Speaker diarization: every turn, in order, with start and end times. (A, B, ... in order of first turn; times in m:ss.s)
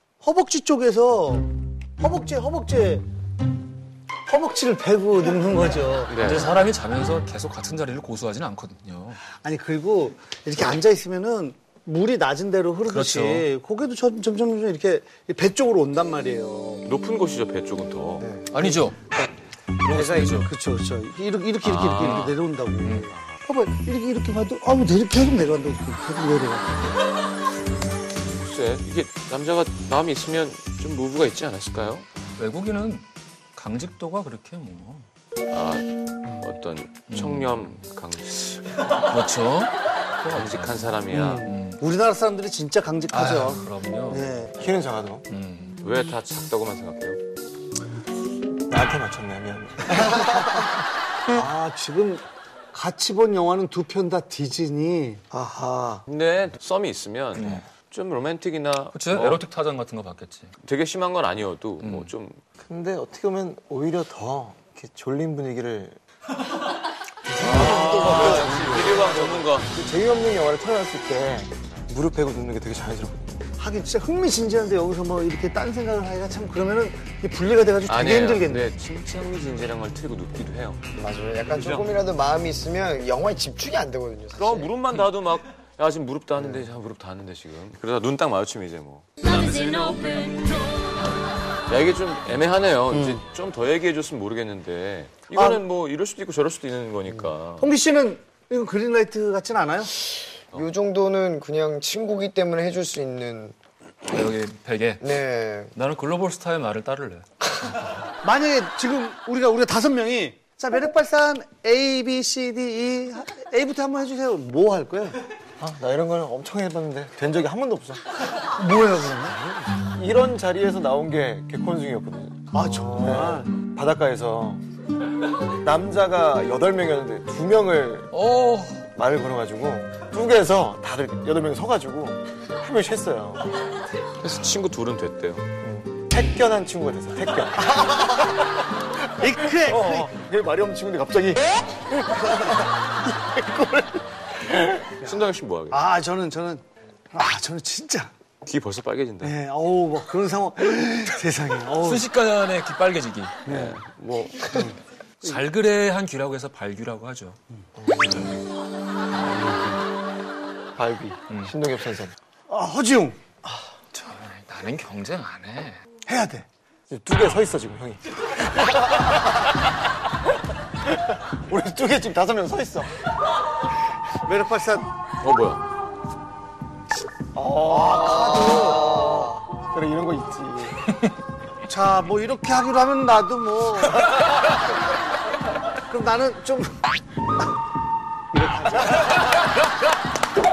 0:00.2-0:03.0 A
0:04.2-0:06.1 A
0:06.1-0:06.6 B
0:06.1-0:09.3 C
0:09.3-0:16.8 A
0:12.8-0:13.5 C
0:16.8-0:18.3 B
0:18.2-0:19.2 D
0:18.5-0:19.0 C
0:19.8-0:20.5 C
0:19.9-0:20.5 D
0:20.4-0:26.8 A
0:21.6-0:23.4 B
0:21.8-0:23.1 C
0:28.4-0:32.0 B
0:32.4-0:33.0 C
0:33.6-0:35.1 C
0:35.5-0:39.0 B
0:37.1-0:37.8 C
0:39.1-0:41.8 C
0:40.2-0:41.5 B
0:41.1-0:44.5 A
0:43.1-0:44.4 C
0:44.6-0:45.3 E
0:45.3-0:45.8 C
0:45.8-0:47.2 B
0:48.7-0:50.7 E
0:51.3-0:51.6 E
0:51.4-0:55.2 A
0:55.3-0:56.0 E
0:56.1-0:59.4 B
0:57.3-0:57.6 C
0:58.9-1:00.5 C
1:00.6-1:02.4 B
1:01.8-1:02.1 C
1:02.6-1:06.0 E
1:07.4-1:09.0 C
1:07.4-1:09.7 B
1:07.4-1:13.4 E
1:13.6-1:18.7 A
1:17.8-1:20.8 B
1:20.9-1:24.7 D
1:21.5-1:22.0 B
1:24.4-1:30.5 B
1:26.4-1:26.7 D
1:31.7-1:37.7 B
1:35.3-1:35.6 A
1:37.6-1:39.9 A
1:40.5-1:43.5 D
1:44.1-1:45.1 C
1:45.0-1:45.7 D
1:45.7-1:47.8 C
1:48.2-1:55.2 A
1:55.6-1:58.0 E
1:58.6-1:59.4 A
1:59.2-2:04.6 E
2:02.5-2:03.4 A
2:05.6-2:08.1 E
2:08.1-2:08.9 C
2:08.9-2:13.5 E
2:14.2-2:15.4 B
2:15.6-2:18.3 E
2:19.2-2:20.1 A
2:19.5-2:22.7 E
2:23.2-2:24.0 E
2:24.6-2:25.8 B
2:25.7-2:28.1 A
2:28.4-2:29.4 B
2:29.2-2:32.0 A
2:31.8-2:33.5 C
2:33.4-2:34.7 B
2:33.5-2:33.8 A
2:35.2-2:37.4 C
2:37.8-2:38.3 E
2:40.8-2:42.2 E
2:41.3-2:41.6 C
2:42.5-2:43.2 A
2:43.9-2:45.8 C
2:46.0-2:46.4 A
2:46.9-2:49.2 E
2:51.1-2:52.9 E
2:54.2-2:54.9 A
2:55.2-2:55.6 B
2:57.3-3:00.9 E
2:57.7-2:59.0 A
3:01.7-3:03.9 A
3:05.9-3:06.8 A
3:08.3-3:09.1 A